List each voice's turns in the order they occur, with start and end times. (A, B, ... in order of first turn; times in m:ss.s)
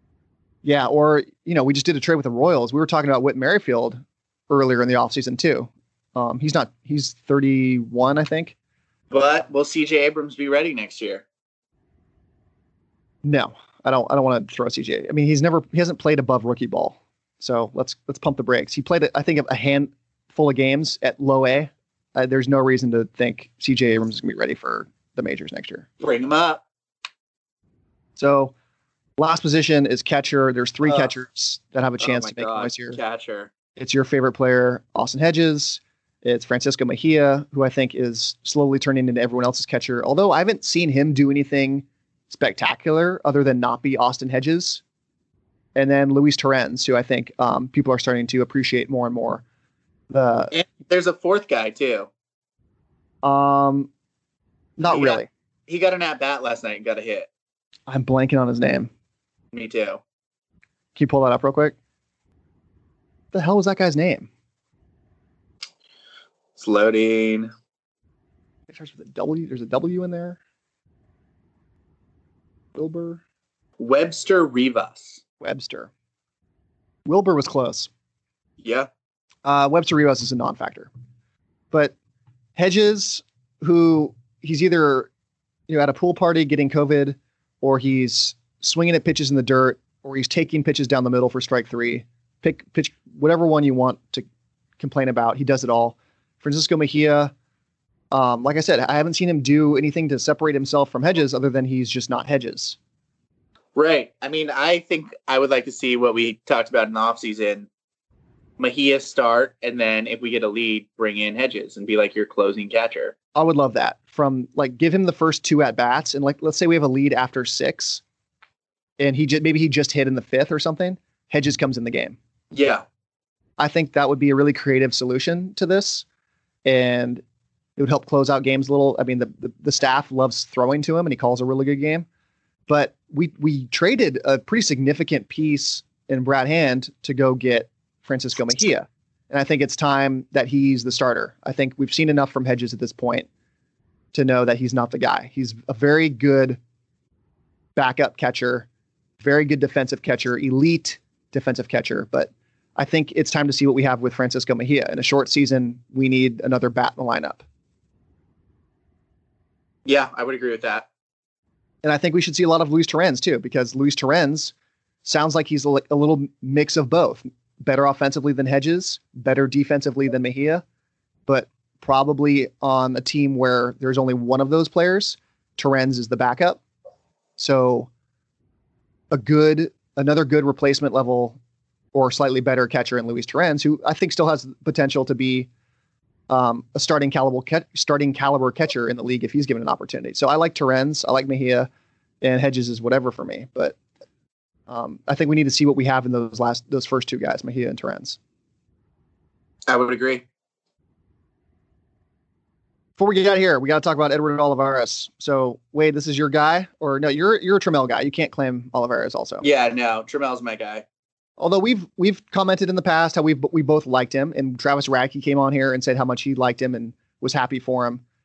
0:00.6-0:08.6 A
0:09.1-0:11.2 B
0:13.2-0:25.9 A
0:26.0-0:26.6 B
0:28.2-0:28.5 A
0:29.2-0:33.0 A
0:30.9-0:31.1 B
0:32.0-0:33.5 B
0:33.8-0:44.8 A
0:45.8-0:49.4 A
0:50.1-0:50.5 A
0:50.5-0:52.1 B
0:53.2-0:53.9 A
0:54.8-0:55.3 A
0:54.9-0:57.3 B
0:57.9-0:58.9 A
0:59.5-1:00.0 B
1:01.0-1:01.8 A
1:03.3-1:04.3 A
1:06.6-1:07.5 B
1:08.7-1:10.4 A
1:12.8-1:13.2 A
1:13.8-1:15.2 B
1:15.4-1:15.9 A
1:17.1-1:17.9 A
1:18.6-1:18.9 B
1:19.4-1:20.9 A
1:22.6-1:25.1 A
1:25.7-1:34.3 A
1:34.8-1:37.3 A
1:38.1-1:42.8 A
1:43.8-1:47.7 B
1:48.6-1:53.1 B
1:53.4-1:58.0 A
1:59.0-2:02.2 A
2:02.5-2:02.8 B
2:03.6-2:06.0 A
2:06.6-2:07.2 A
2:07.8-2:12.1 A
2:12.7-2:23.3 A
2:24.1-2:26.6 A
2:27.8-2:28.7 A
2:29.2-2:37.4 A
2:39.9-2:40.9 B
2:41.8-2:44.5 A
2:45.0-2:50.6 A
2:51.3-2:56.6 A
2:57.4-2:57.9 A
2:59.1-3:01.4 A
3:01.9-3:05.5 A
3:06.3-3:11.7 A
3:12.2-3:13.8 A
3:14.7-3:18.2 A
3:19.7-3:20.2 B
3:23.0-3:29.4 A
3:29.4-3:30.8 B
3:31.4-3:38.0 A